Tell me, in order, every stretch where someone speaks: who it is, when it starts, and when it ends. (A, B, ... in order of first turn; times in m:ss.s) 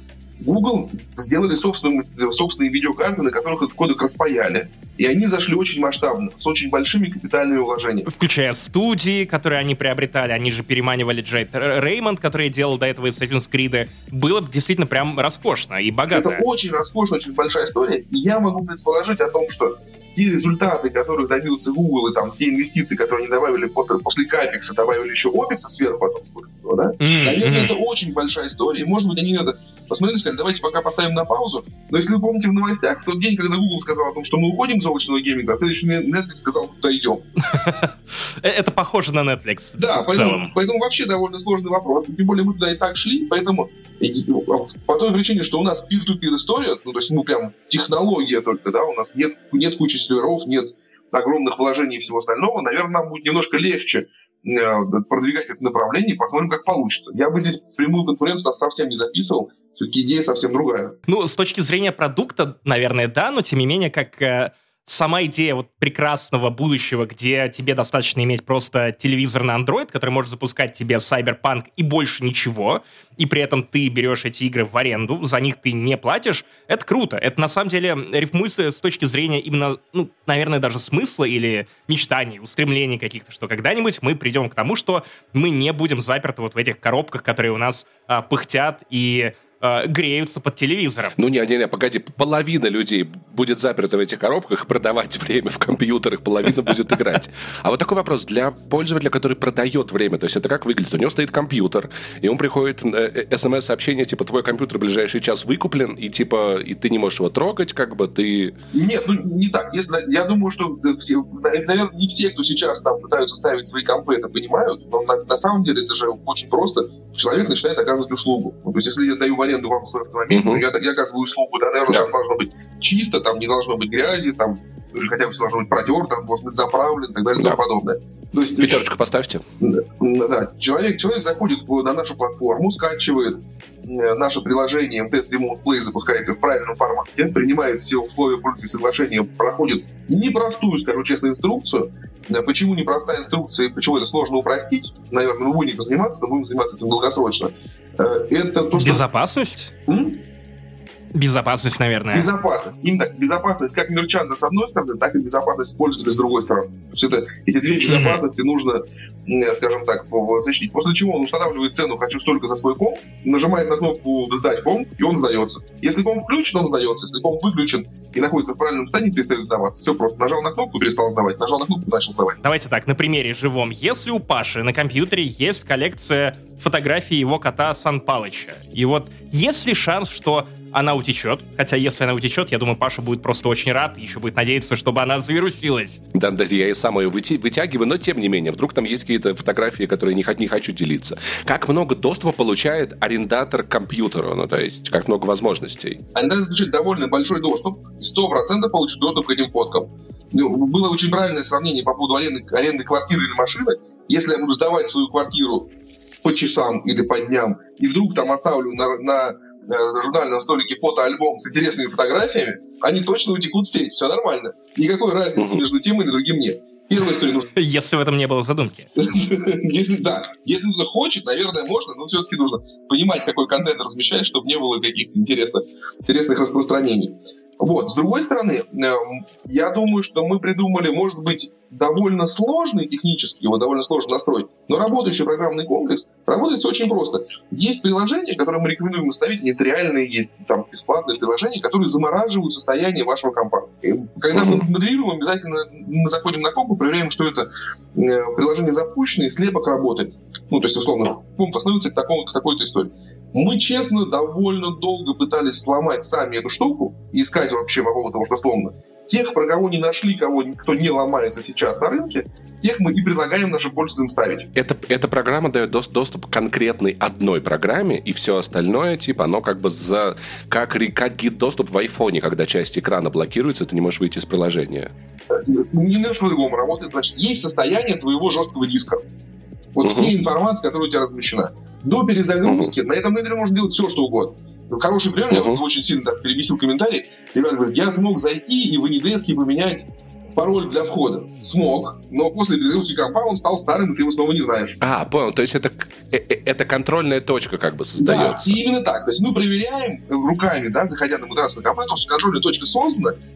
0:00.4-0:08.1 A
0:08.0-0:16.4 B
0:16.1-0:37.3 A
0:27.0-0:27.7 B
0:37.4-0:40.5 B
0:39.8-1:01.0 A
1:01.1-1:31.2 B
1:31.2-1:48.5 C
1:48.7-2:08.8 A
2:00.3-2:00.6 C
2:08.6-2:09.4 C
2:09.6-2:29.0 A
2:28.7-2:29.7 B
2:29.9-2:30.2 A
2:31.1-2:32.3 B
2:32.1-2:52.4 A
2:37.8-2:38.2 B
2:52.4-3:06.0 B
3:06.1-3:16.0 C
3:16.1-3:25.7 A
3:26.2-3:37.5 A
3:35.4-3:35.6 C
3:37.5-3:38.9 B
3:39.0-4:24.5 A
4:04.3-4:04.6 C
4:24.5-4:34.9 C
4:35.3-4:39.0 A
4:39.7-4:54.8 A
4:39.8-4:40.1 C
4:42.4-4:42.7 C
4:45.3-4:45.6 C
4:54.8-4:58.6 C
4:58.0-5:03.2 A